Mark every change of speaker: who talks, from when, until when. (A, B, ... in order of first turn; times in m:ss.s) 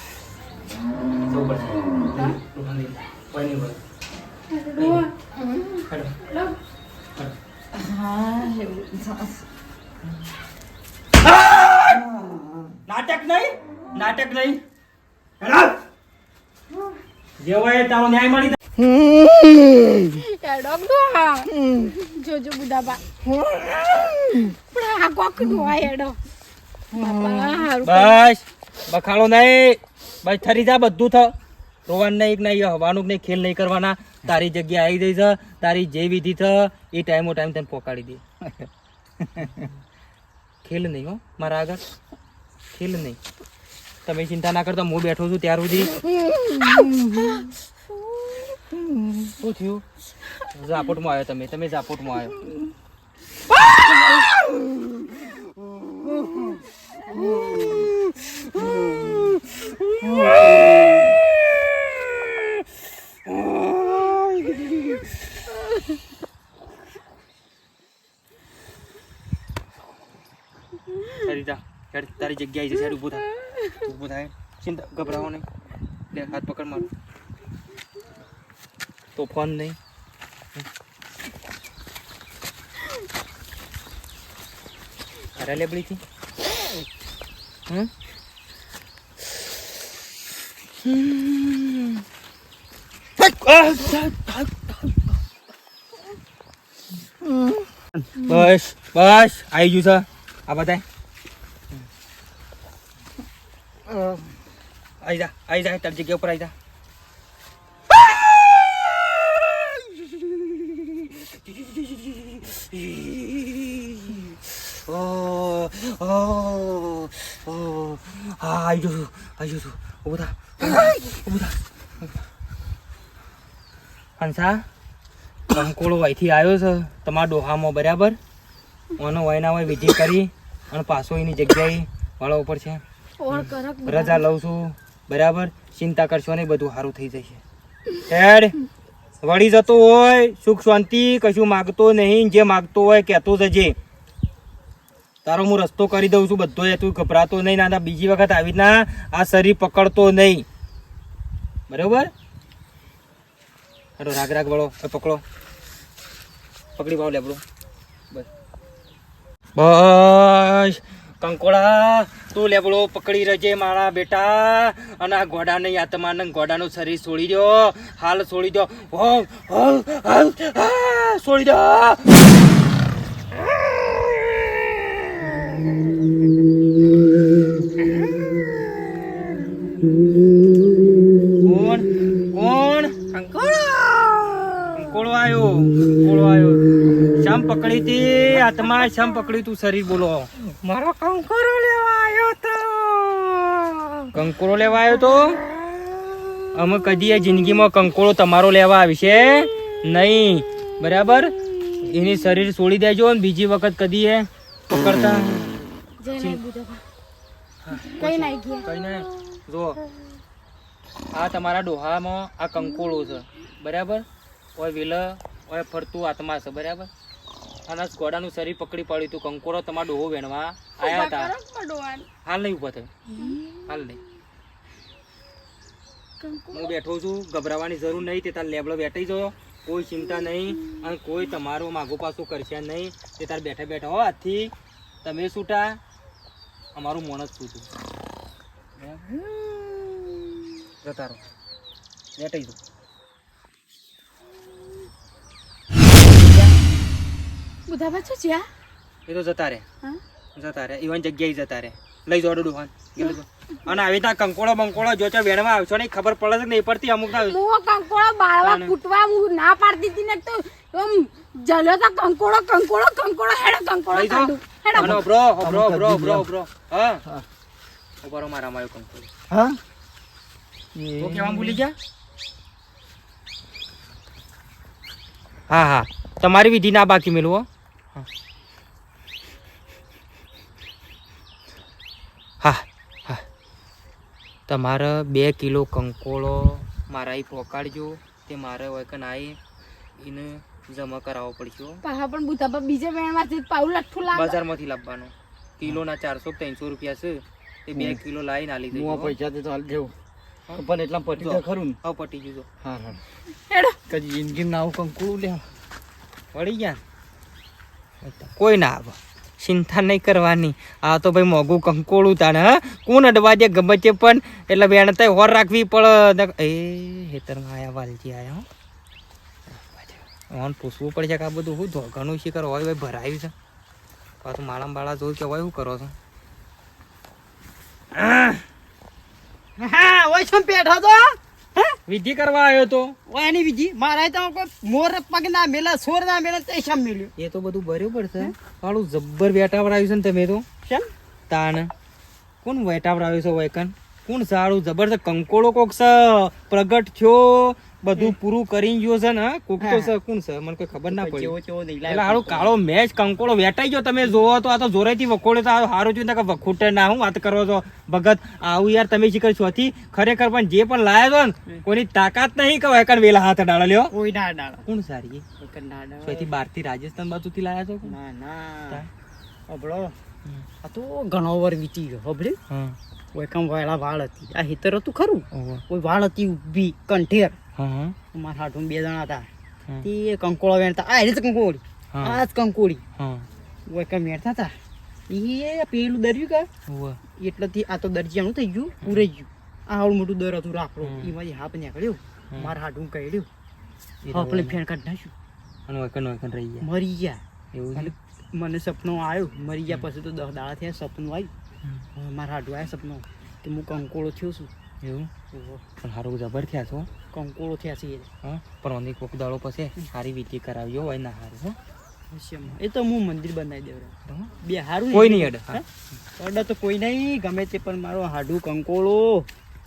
0:01.3-0:03.8 A
0:04.5-0:05.1 B
0:04.8-0:05.0 A
0:06.2-0:06.6 B
0:07.7-0:09.4 C
0:11.2-0:12.0 A
0:12.8-0:14.6 A
0:15.4-0:15.8 A
0:17.4-0:18.6 A
0:18.9-0:20.0 D
0:20.1-0:23.0 B
0:23.5-0:24.4 D
0:24.5-0:26.2 B
0:26.9-0:28.2 B
0:27.1-0:27.5 D
0:27.8-0:31.3 A
0:31.9-0:38.2 A
0:39.3-0:39.6 D
0:40.6-0:41.8 A
0:42.7-0:43.2 A
0:44.0-0:46.0 A
0:49.4-0:49.8 A
0:50.5-0:52.4 A
1:11.2-1:15.4 A
1:16.1-1:16.9 A
1:19.2-1:19.8 A
1:25.4-1:26.0 A
1:30.8-1:32.0 A
1:33.2-1:34.9 A
1:38.2-1:40.8 A
1:43.9-1:44.2 D
1:45.0-1:46.5 A
1:49.8-2:01.6 A
2:04.2-2:04.6 A
2:05.5-2:08.2 A
2:09.0-2:12.8 A
2:13.2-2:14.2 B
2:13.3-2:17.4 A
2:18.1-2:18.5 A
2:19.2-2:23.8 A
2:25.2-2:30.4 A
2:31.7-2:32.1 A
2:34.0-2:35.2 A
2:36.8-2:37.4 A
2:39.6-2:52.2 A
3:01.4-3:13.4 A
3:14.1-3:15.5 A
3:16.5-3:25.4 A
3:26.0-3:26.8 B
3:27.6-3:29.8 A
3:27.9-3:28.7 B
3:31.1-3:34.0 A
3:34.6-3:36.9 A
3:37.6-3:41.3 A
3:40.8-3:42.1 B
3:42.2-3:43.1 A
3:43.1-3:43.7 B
3:43.6-3:44.0 A
3:46.2-3:46.7 B
3:46.5-3:54.5 A
3:55.0-3:55.8 A
3:56.7-3:57.7 A
3:58.8-3:59.4 A
4:00.8-4:01.2 A
4:02.2-4:02.6 A
4:07.7-4:08.4 B
4:09.1-4:09.6 A
4:10.4-4:17.4 A
4:17.1-4:25.0 B
4:18.4-4:18.7 A
4:23.9-4:27.0 A
4:24.8-4:26.3 D
4:28.0-4:29.1 A
4:29.3-4:29.6 D
4:30.7-4:31.6 D
4:31.0-4:31.7 A
4:35.5-4:38.0 A
4:42.4-4:43.2 A
4:44.5-4:49.4 A
4:50.0-4:51.8 A
4:51.8-4:54.4 B
4:54.1-4:59.1 A
4:57.7-4:58.0 D
4:58.7-4:59.9 D
5:00.5-5:01.8 D
5:01.2-5:02.5 A
5:02.6-5:03.0 D
5:03.4-5:03.8 B
5:03.9-5:05.4 D
5:06.3-5:06.8 A
5:08.0-5:18.4 A
5:19.5-5:23.3 A
5:24.2-5:25.9 A
5:28.0-5:28.3 A
5:29.6-5:31.7 C
5:31.8-5:32.9 A
5:33.1-5:37.1 C
5:37.2-5:40.4 A
5:41.3-5:41.7 A
5:42.4-5:51.3 A
5:49.6-5:49.9 C
5:50.9-5:52.5 C
5:51.9-6:03.9 A
6:03.9-6:04.6 C
6:04.6-6:05.2 A
6:05.4-6:06.3 C
6:06.0-6:07.9 A
6:07.8-6:08.8 C
6:09.5-6:09.9 C
6:10.6-6:12.4 C
6:12.5-6:12.8 A
6:13.1-6:17.4 C
6:15.3-6:15.6 A
6:17.6-6:18.0 A
6:18.1-6:19.3 C
6:19.8-6:22.8 C
6:21.9-6:22.2 A
6:23.0-6:23.3 A
6:23.7-6:24.5 C
6:25.1-6:26.5 C
6:26.7-6:27.0 A
6:27.2-6:33.3 C
6:30.8-6:31.1 A
6:34.0-6:34.6 A
6:34.1-6:35.1 C
6:35.7-6:36.7 A
6:36.6-6:37.2 C
6:37.5-6:37.9 A
6:37.7-6:41.3 C
6:41.9-6:44.5 C
6:44.8-6:45.1 A
6:45.3-6:45.6 C
6:45.8-6:46.9 A
6:47.1-6:48.1 C
6:48.2-6:51.6 A
6:52.1-6:55.6 C
6:54.0-6:54.3 A
6:54.9-6:55.6 A
6:56.2-6:59.3 C